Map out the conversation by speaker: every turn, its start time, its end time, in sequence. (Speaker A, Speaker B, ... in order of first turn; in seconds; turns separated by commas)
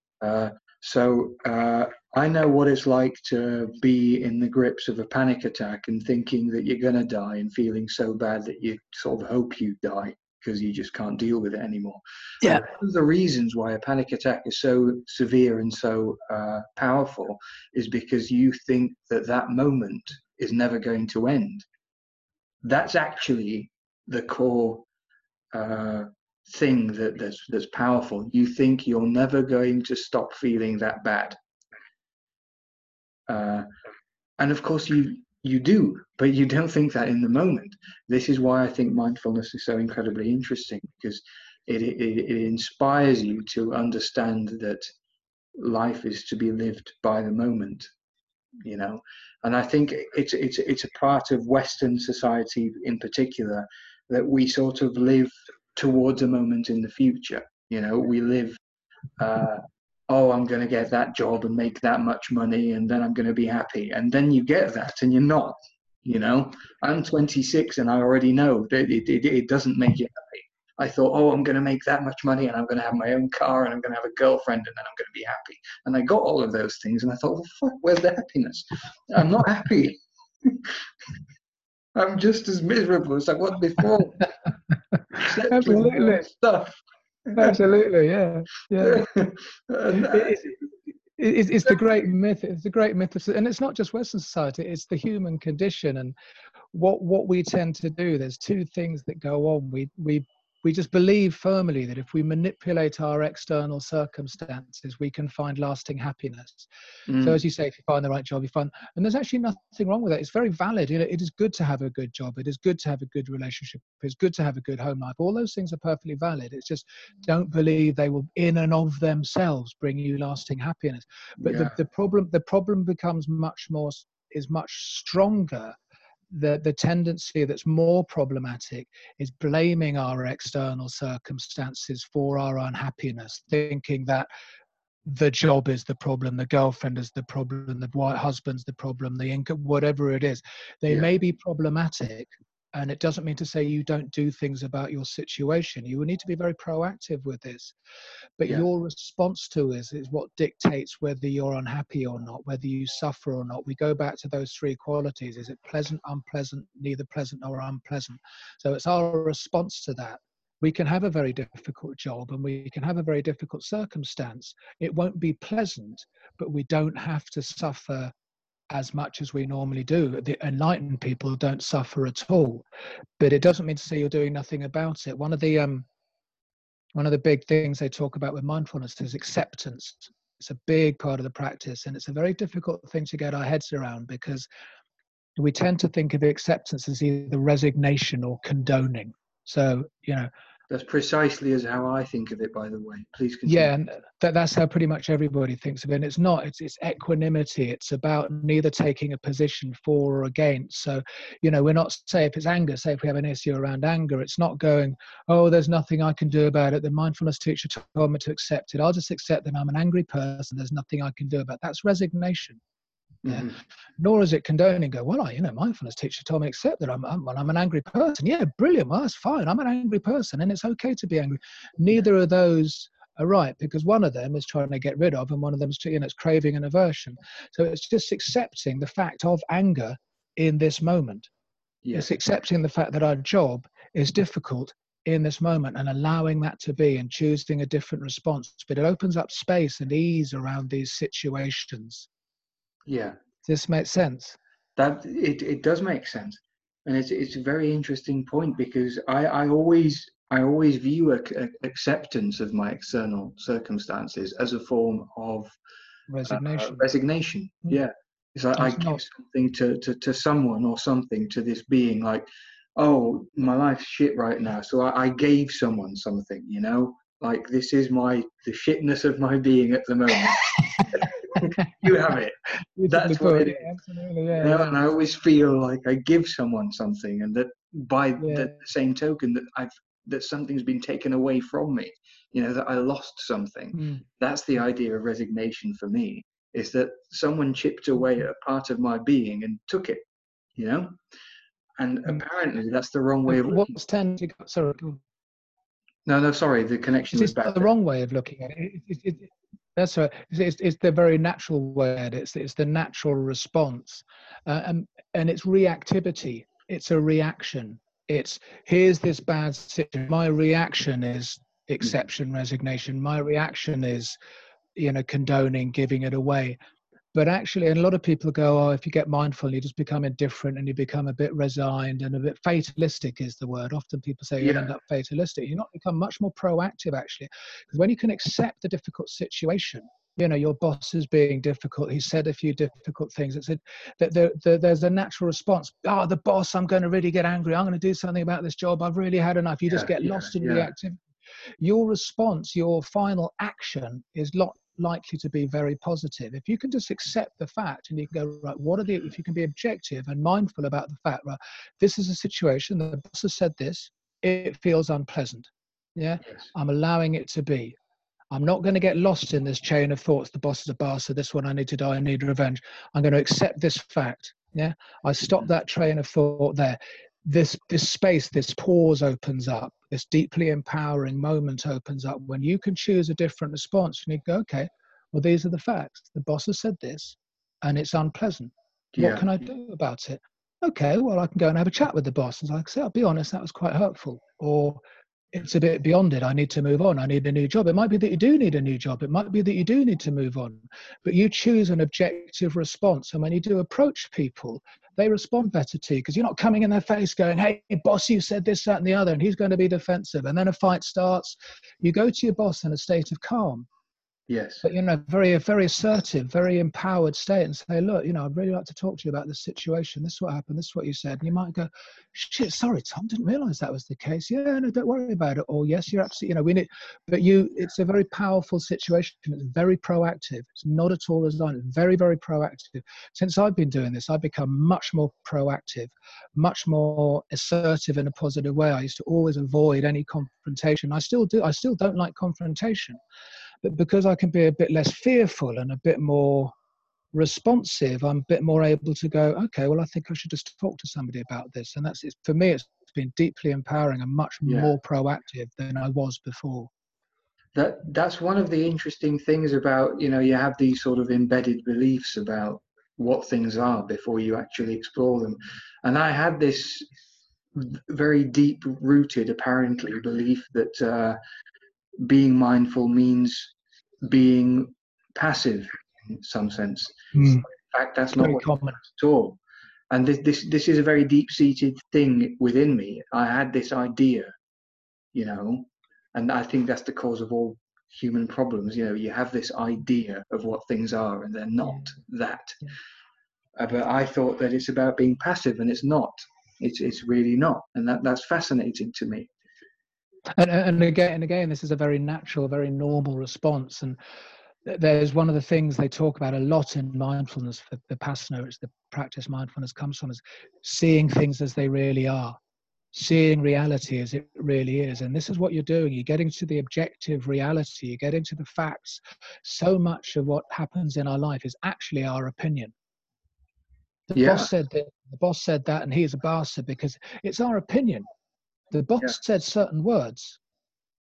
Speaker A: 0.2-21.6, Speaker A: 22.6-24.9, Speaker A: 25.5-31.4, Speaker A: 33.3-33.7, Speaker A: 34.4-44.9, Speaker A: 45.6-47.9, Speaker A: 48.6-58.6, Speaker A: 59.2-80.8, Speaker A: 81.9-84.3, Speaker B: 85.2-86.2, Speaker A: 85.2-87.5, Speaker B: 87.3-89.0, Speaker A: 88.8-90.3, Speaker B: 89.9-90.6, Speaker B: 91.2-96.1, Speaker B: 96.7-106.7, Speaker A: 107.1-107.4, Speaker B: 107.2-125.8, Speaker A: 121.4-121.8, Speaker B: 126.3-134.3, Speaker B: 135.1-147.7, Speaker B: 148.4-168.1, Speaker B: 168.7-172.6, Speaker B: 173.2-175.9, Speaker B: 176.9-184.5, Speaker B: 185.4-190.3, Speaker A: 190.7-193.7, Speaker B: 193.4-212.6, Speaker A: 213.2-213.5, Speaker B: 213.3-231.3, Speaker A: 231.8-232.1, Speaker B: 231.9-242.1, Speaker A: 242.8-243.2, Speaker B: 243.4-244.4, Speaker A: 244.8-255.5, Speaker B: 256.1-256.9, Speaker A: 256.2-273.7, Speaker B: 258.6-259.0, Speaker B: 270.7-271.7, Speaker B: 272.8-274.8, Speaker A: 274.4-290.0, Speaker B: 278.2-278.6, Speaker B: 283.7-284.0, Speaker A: 290.6-291.0, Speaker A: 291.8-293.7, Speaker B: 293.3-295.0, Speaker A: 296.1-297.7, Speaker B: 297.1-314.2, Speaker B: 314.8-316.6, Speaker B: 317.1-341.0, Speaker A: 324.4-324.7, Speaker A: 339.7-340.7, Speaker B: 341.6-357.8, Speaker B: 358.3-384.8, Speaker A: 378.9-379.3, Speaker B: 385.3-403.7, Speaker A: 404.3-404.6, Speaker B: 404.6-433.0, Speaker B: 433.6-436.5, Speaker B: 437.1-446.7, Speaker A: 444.4-444.7, Speaker A: 447.5-456.9, Speaker A: 457.5-461.2, Speaker A: 462.0-469.4, Speaker B: 467.1-467.4, Speaker B: 468.2-468.8, Speaker A: 469.9-474.3, Speaker A: 475.1-482.7, Speaker A: 483.6-489.3, Speaker B: 490.3-494.0, Speaker B: 494.6-502.4, Speaker B: 502.9-512.7, Speaker B: 514.1-518.1, Speaker A: 514.1-514.5, Speaker B: 518.7-520.4